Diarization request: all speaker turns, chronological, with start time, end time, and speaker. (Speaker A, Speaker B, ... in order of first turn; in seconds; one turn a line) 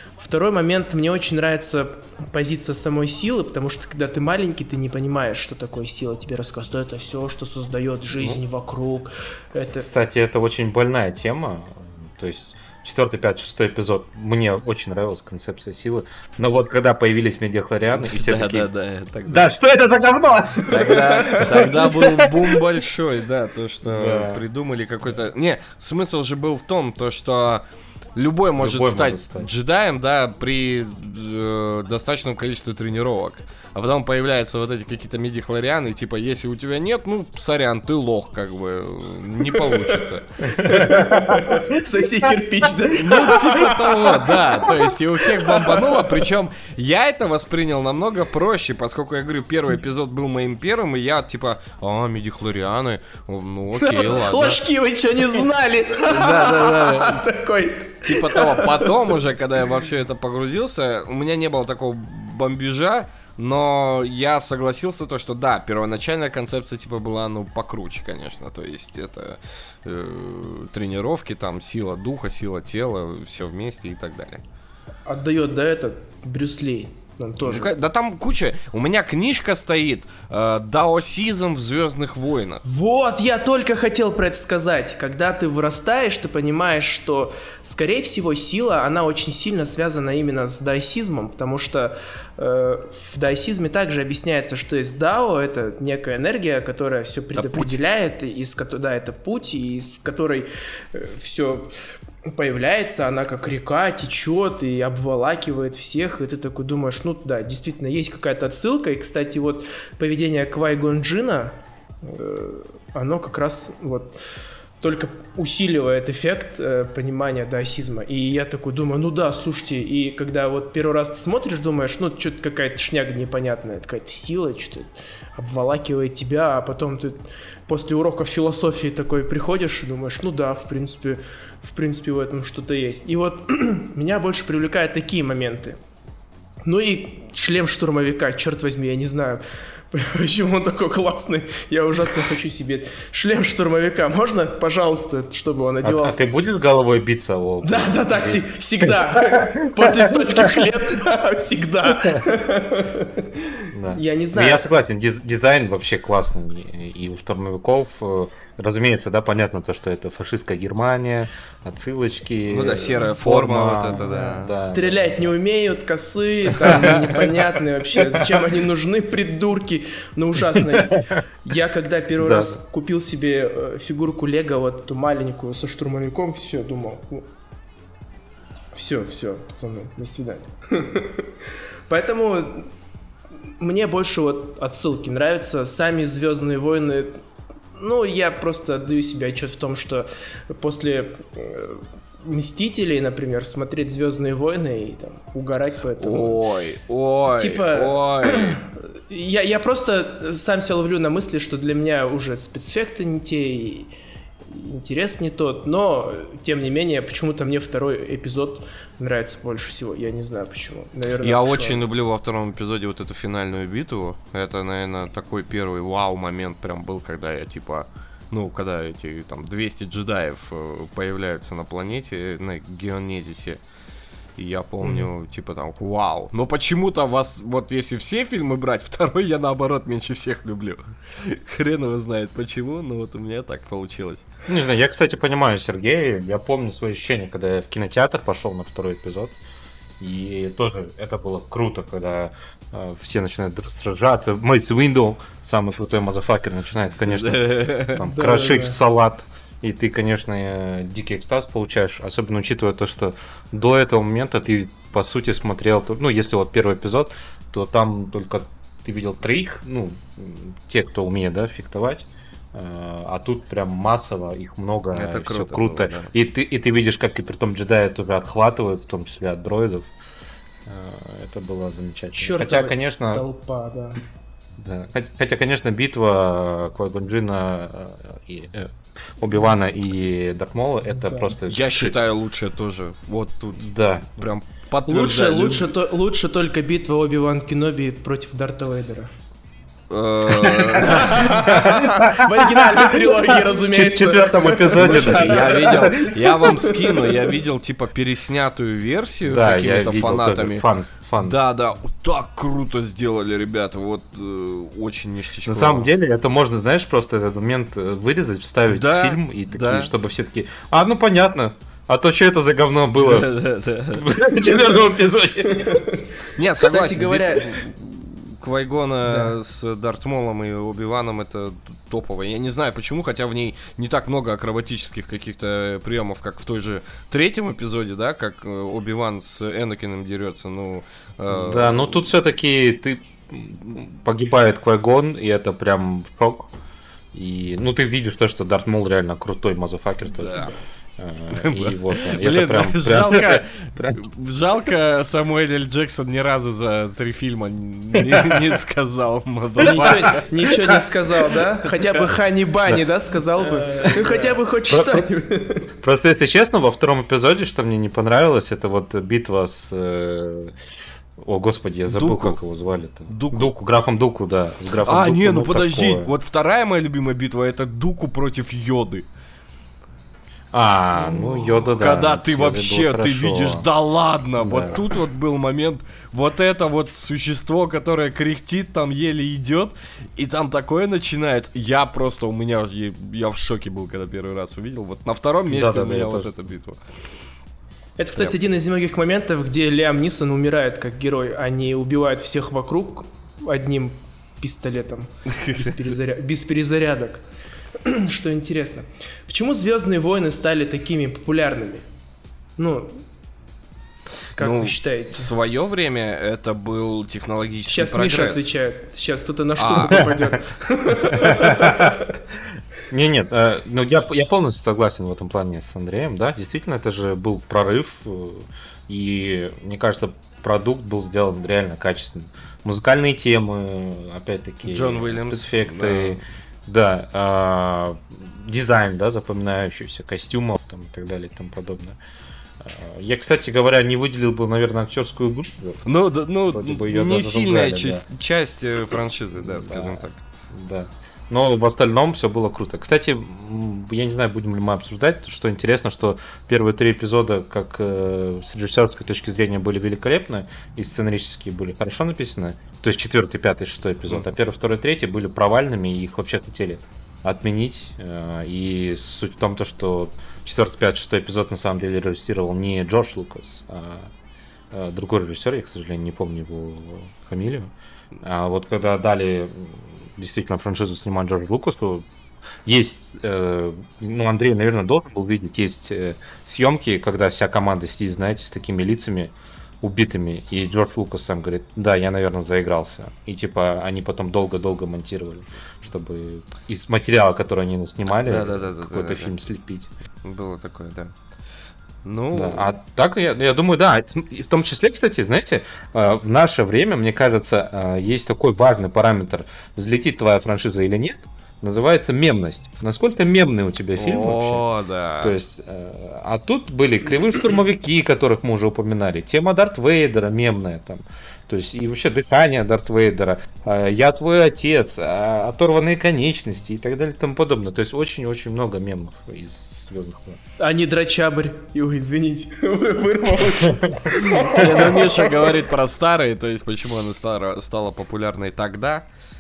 Speaker A: 0.2-9.9
Speaker B: 9.6-18.7
Speaker C: 17.9-19.5
Speaker B: 19.3-22.6
Speaker C: 20.7-27.6
Speaker A: 21.1-21.5
Speaker B: 23.8-24.4
Speaker C: 28.2-40.3
Speaker B: 28.6-29.5
Speaker A: 39.6-46.3
Speaker B: 40.5-41.7
Speaker C: 43.0-54.6
Speaker A: 53.8-58.9
Speaker C: 56.1-57.2
Speaker C: 58.0-74.4
Speaker A: 75.1-77.8
Speaker C: 77.5-82.6
Speaker A: 82.6-101.7
Speaker C: 97.3-97.8
Speaker A: 102.3-114.2
Speaker A: 114.8-135.8
Speaker A: 136.7-146.2
Speaker B: 145.8-150.8
Speaker A: 147.6-154.7
Speaker B: 152.0-152.2
Speaker B: 153.7-165.2
Speaker C: 162.5-164.6
Speaker A: 164.1-177.3
Speaker B: 166.6-167.3
Speaker C: 166.6-167.1
Speaker B: 168.0-168.4
Speaker B: 170.5-171.2
Speaker B: 172.2-172.6
Speaker A: 178.7-181.3
Speaker A: 181.9-182.7
Speaker A: 183.6-187.2
Speaker A: 187.8-196.4
Speaker C: 196.0-198.6
Speaker A: 197.4-203.9
Speaker A: 204.5-211.8
Speaker C: 211.2-223.6
Speaker C: 224.4-234.2
Speaker B: 234.5-239.4
Speaker B: 240.0-269.9
Speaker C: 247.1-248.0
Speaker A: 248.0-248.8
Speaker C: 264.9-266.1
Speaker B: 270.7-273.2
Speaker A: 272.1-274.0
Speaker B: 274.6-281.9
Speaker A: 280.9-281.4
Speaker C: 281.5-285.7
Speaker B: 283.6-284.2
Speaker A: 284.9-289.1
Speaker C: 289.9-291.3
Speaker B: 290.3-296.1
Speaker A: 290.8-297.1
Speaker C: 294.7-300.6
Speaker B: 299.2-301.4
Speaker C: 301.2-305.9
Speaker B: 305.4-313.3
Speaker C: 308.7-309.9
Speaker C: 313.0-314.1
Speaker B: 313.9-315.8
Speaker A: 315.4-316.0
Speaker C: 316.4-332.1
Speaker A: 316.6-317.6
Speaker A: 319.1-319.3
Speaker B: 331.3-336.5
Speaker B: 337.1-344.0
Speaker C: 340.1-340.5
Speaker C: 341.3-350.8
Speaker B: 347.9-348.6
Speaker A: 349.6-355.7
Speaker B: 349.8-350.1
Speaker C: 351.8-352.1
Speaker C: 353.6-353.9
Speaker B: 354.7-355.1
Speaker B: 355.8-360.6
Speaker B: 361.2-366.1
Speaker C: 361.9-362.4
Speaker C: 363.1-363.5
Speaker C: 364.9-369.1
Speaker B: 370.5-373.7
Speaker C: 370.9-386.8
Speaker B: 374.4-374.8
Speaker B: 385.5-386.3
Speaker A: 388.0-397.2
Speaker C: 395.3-395.8
Speaker A: 397.8-401.9
Speaker A: 402.6-403.0
Speaker A: 404.4-405.3
Speaker C: 404.4-408.5
Speaker A: 407.7-412.1
Speaker C: 409.6-410.1
Speaker B: 409.9-410.2
Speaker B: 411.1-412.1
Speaker B: 412.9-432.0
Speaker C: 424.7-426.2
Speaker B: 432.6-435.8
Speaker C: 435.9-440.2
Speaker B: 436.5-438.0
Speaker B: 439.4-464.1
Speaker B: 464.7-472.1
Speaker B: 472.6-489.9
Speaker C: 488.2-489.4
Speaker C: 490.2-491.1
Speaker C: 492.0-492.7
Speaker B: 492.3-504.6
Speaker C: 504.0-505.4
Speaker B: 505.2-520.4
Speaker A: 520.6-525.3
Speaker C: 524.3-529.1